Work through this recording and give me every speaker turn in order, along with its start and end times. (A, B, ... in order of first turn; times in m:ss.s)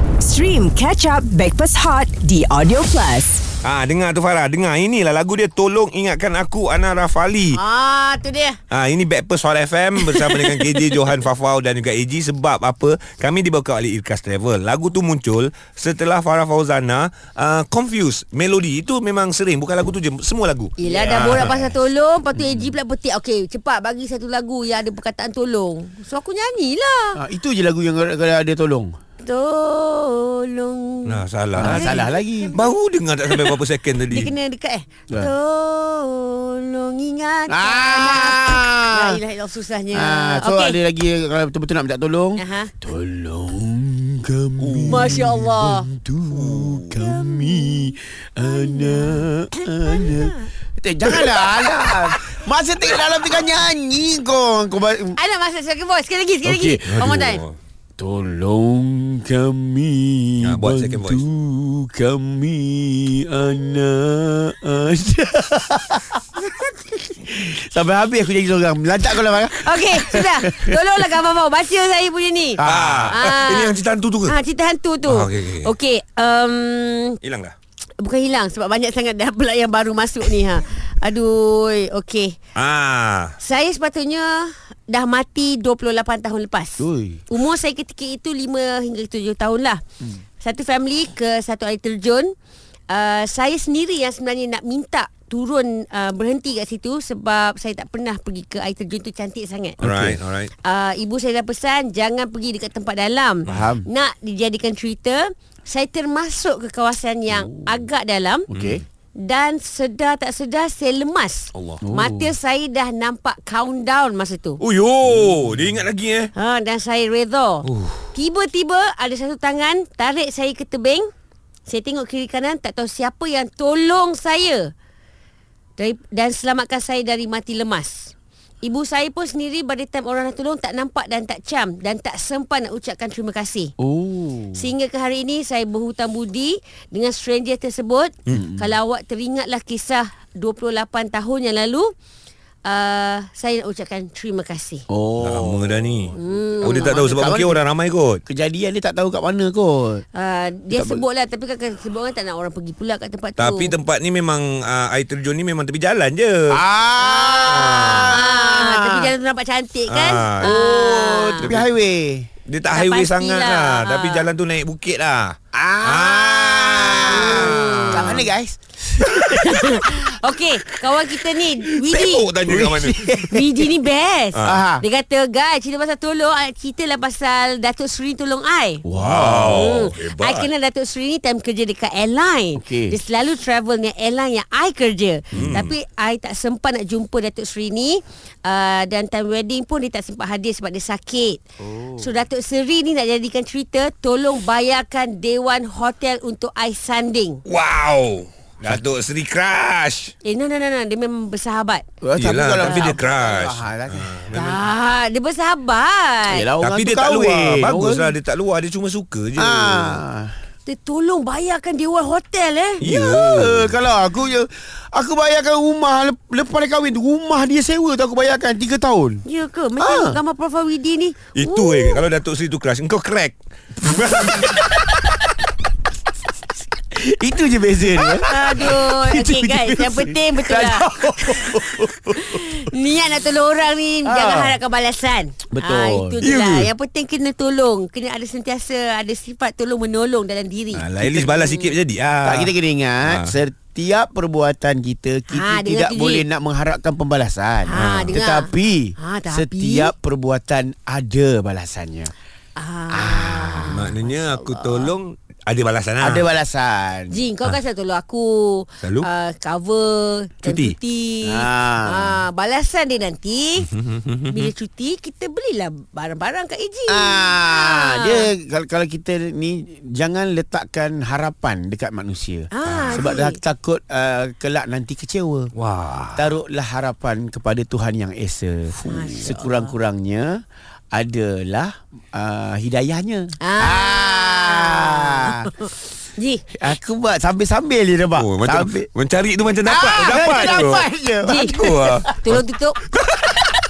0:00.2-0:03.4 A
0:03.6-0:07.6 B
0:07.5-0:08.6 C
0:08.7-0:21.7 B
0:10.0-0:10.9 C
0:20.8-0:27.2 C
0:20.9-0:21.5 D
0:22.4-0:22.6 D
0:27.1-0:28.9 D
0:29.2-0:32.6 C
0:31.0-0:32.0 B
0:31.6-0:32.5 D
0:32.5-0:34.3 B
0:33.3-0:33.5 C
0:34.1-0:40.8 C
0:37.5-0:39.2 D
0:39.9-0:55.2 D
0:42.4-0:42.7 C
0:44.6-0:45.2 B
0:44.9-0:45.9 C
0:46.3-0:46.8 B
0:46.7-0:50.5 C
0:51.1-0:51.9 C
0:55.1-0:57.4 C
0:56.4-0:57.4 D
0:57.0-0:57.6 B
0:58.0-1:10.8 D
1:00.4-1:01.2 B
1:09.6-1:17.2 C
1:12.6-1:13.2 D
1:12.6-1:14.3 B
1:15.0-1:15.7 B
1:17.2-1:17.6 B
1:18.0-1:22.4 C
1:22.6-1:23.4 B
1:23.4-1:29.8 C
1:26.8-1:27.2 D
1:30.4-1:32.3 C
1:32.9-1:39.8 C
1:39.8-1:40.2 D
1:39.8-1:40.5 B
1:40.6-1:48.5 C
1:43.5-1:43.8 D
1:47.3-1:47.6 D
1:48.5-1:48.8 D
1:48.5-1:48.8 B
1:49.1-1:54.6 C
1:51.5-1:51.8 B
1:51.8-1:52.3 D
1:54.6-1:56.3 B
1:56.3-2:01.1 C
1:57.6-1:58.0 B
2:01.7-2:04.7 C
2:05.8-2:13.7 C
2:13.8-2:14.7 D
2:14.5-2:21.9 C
2:18.3-2:18.6 D
2:22.6-2:24.8 C
2:24.9-2:27.6 D
2:25.2-2:28.2 B
2:26.2-2:27.1 C
2:28.3-2:30.0 D
2:30.1-2:33.7 C
2:30.7-2:31.0 D
2:33.4-2:36.6 B
2:36.5-2:39.1 D
2:37.0-2:41.5 C
2:37.5-2:38.2 B
2:39.9-2:40.6 B
2:40.4-2:42.3 D
2:42.5-2:48.3 B
2:42.7-2:44.3 C
2:45.5-2:49.8 D
2:46.9-2:48.3 C
2:49.0-2:52.3 C
2:51.7-2:53.1 B
2:52.4-2:53.7 D
2:53.3-2:58.8 C
2:54.3-2:54.6 B
2:54.4-2:54.8 D
2:58.8-2:59.8 D
2:59.0-3:00.5 B
2:59.5-3:11.4 C
3:02.6-3:03.0 D
3:05.3-3:05.7 B
3:11.6-3:12.1 D
3:12.0-3:17.4 C
3:17.5-3:20.1 B
3:20.2-3:21.8 C
3:22.0-3:24.3 D
3:22.2-3:24.6 B
3:22.6-3:22.9 C
3:24.3-3:26.5 C
3:26.3-3:28.1 D
3:26.6-3:30.0 B
3:29.4-3:30.3 D
3:30.6-3:32.8 C
3:32.8-3:33.8 B
3:32.8-3:39.2 D
3:39.2-3:42.0 C
3:39.8-3:40.2 D
3:41.4-3:44.6 B
3:46.9-3:52.6 D
3:48.2-3:51.6 C
3:52.1-4:01.7 C
3:54.0-3:54.6 D
3:55.5-3:56.2 D
3:56.2-3:56.7 B
4:00.7-4:02.5 B
4:02.2-4:12.1 D
4:03.0-4:03.4 B
4:05.3-4:06.2 C
4:07.6-4:09.9 C
4:07.7-4:08.2 B
4:12.6-4:14.9 C
4:12.9-4:13.8 D
4:13.7-4:16.2 B
4:16.0-4:17.2 D
4:17.1-4:23.7 C
4:18.8-4:19.1 B
4:20.4-4:20.8 B
4:21.2-4:22.2 D
4:23.6-4:24.5 B
4:24.3-4:28.3 C
4:26.9-4:35.5 D
4:32.5-4:33.4 C
4:32.6-4:33.1 B
4:35.6-4:36.3 B
4:36.1-4:40.4 D
4:38.9-4:39.7 C
4:40.9-4:45.5 D
4:43.4-4:46.4 C
4:46.5-4:48.9 D
4:48.2-4:52.0 B
4:49.6-4:52.1 D
4:51.2-4:51.5 C
4:52.2-4:52.8 C